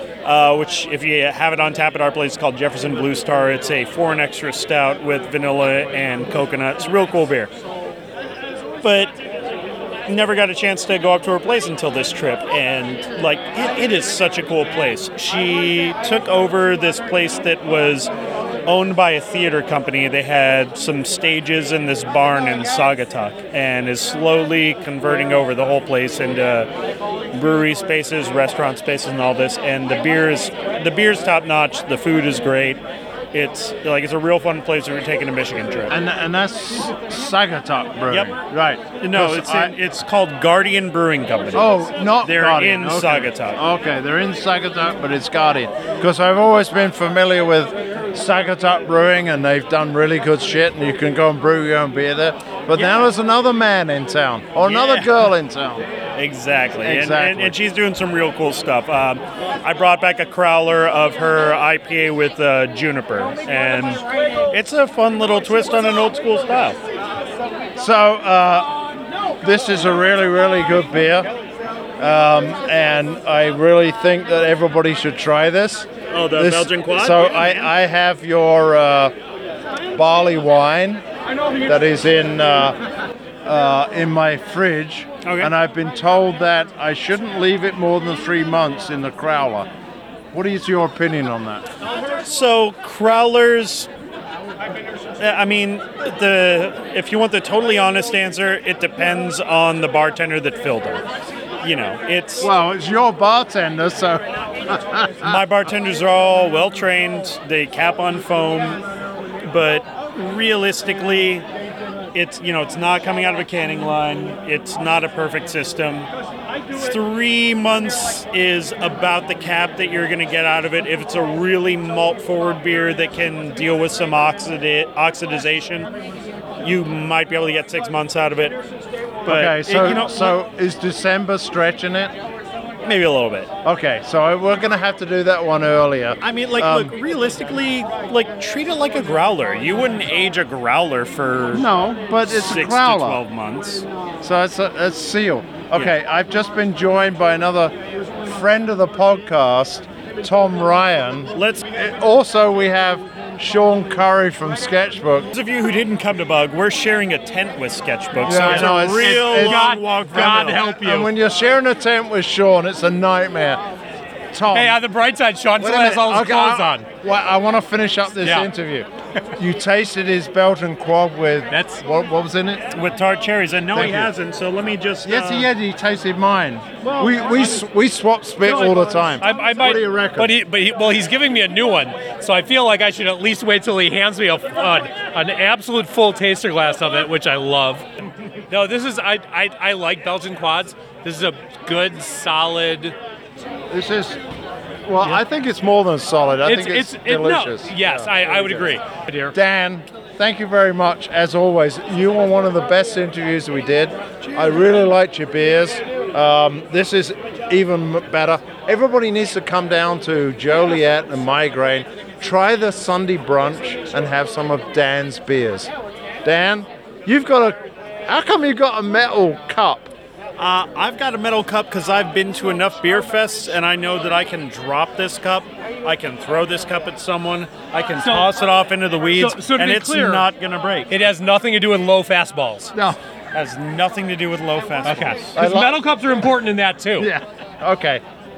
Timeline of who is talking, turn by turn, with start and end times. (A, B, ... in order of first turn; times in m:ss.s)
0:00.2-0:07.5 A
0:08.8-0:09.1 A
0:10.0-0:18.1 A
0:18.6-0:26.7 A
0:27.3-0:32.8 A
0:33.3-0:36.0 A
0:35.9-0:39.8 B
0:38.1-0:38.3 A
0:39.0-0:43.6 A
0:41.5-0:55.9 B
0:54.6-0:55.1 A
0:56.1-1:06.8 A
0:56.8-0:57.6 B
1:07.8-1:08.8 B
1:09.4-1:11.3 B
1:12.0-1:19.1 B
1:16.1-1:17.7 A
1:19.9-1:21.0 B
1:21.6-1:22.8 B
1:23.4-1:29.7 B
1:25.2-1:25.5 A
1:30.3-1:31.6 B
1:32.2-1:33.9 A
1:35.2-1:41.0 A
1:41.6-1:42.5 A
1:42.4-1:45.4 B
1:45.2-1:48.8 A
1:49.4-1:51.5 A
1:52.1-1:56.1 A
1:56.7-2:05.9 A
2:06.6-2:08.6 A
2:09.2-2:10.4 A
2:09.3-2:12.1 B
2:12.8-2:13.5 A
2:13.6-2:16.9 B
2:16.2-2:21.7 A
2:21.5-2:23.2 B
2:22.2-2:23.8 A
2:24.2-2:35.3 B
2:31.3-2:31.6 A
2:35.3-2:40.6 A
2:38.2-2:39.7 B
2:38.3-2:41.1 C
2:40.2-2:43.6 B
2:44.3-2:44.8 B
2:44.5-2:46.8 C
2:45.6-2:52.6 B
2:48.2-2:48.5 C
2:51.5-2:51.8 C
2:52.7-2:55.5 A
2:53.7-2:54.1 B
2:55.0-3:00.4 B
2:58.7-3:07.9 C
3:08.5-3:13.0 C
3:13.7-3:14.2 B
3:14.8-3:18.5 B
3:16.4-3:19.3 C
3:19.3-3:35.7 B
3:36.2-3:39.9 B
3:40.4-3:50.9 A
3:48.0-3:48.3 C
3:49.1-3:50.3 C
3:50.9-3:52.7 C
3:53.3-3:55.2 A
3:54.8-3:57.1 C
3:55.3-3:55.8 B
3:57.0-3:58.0 B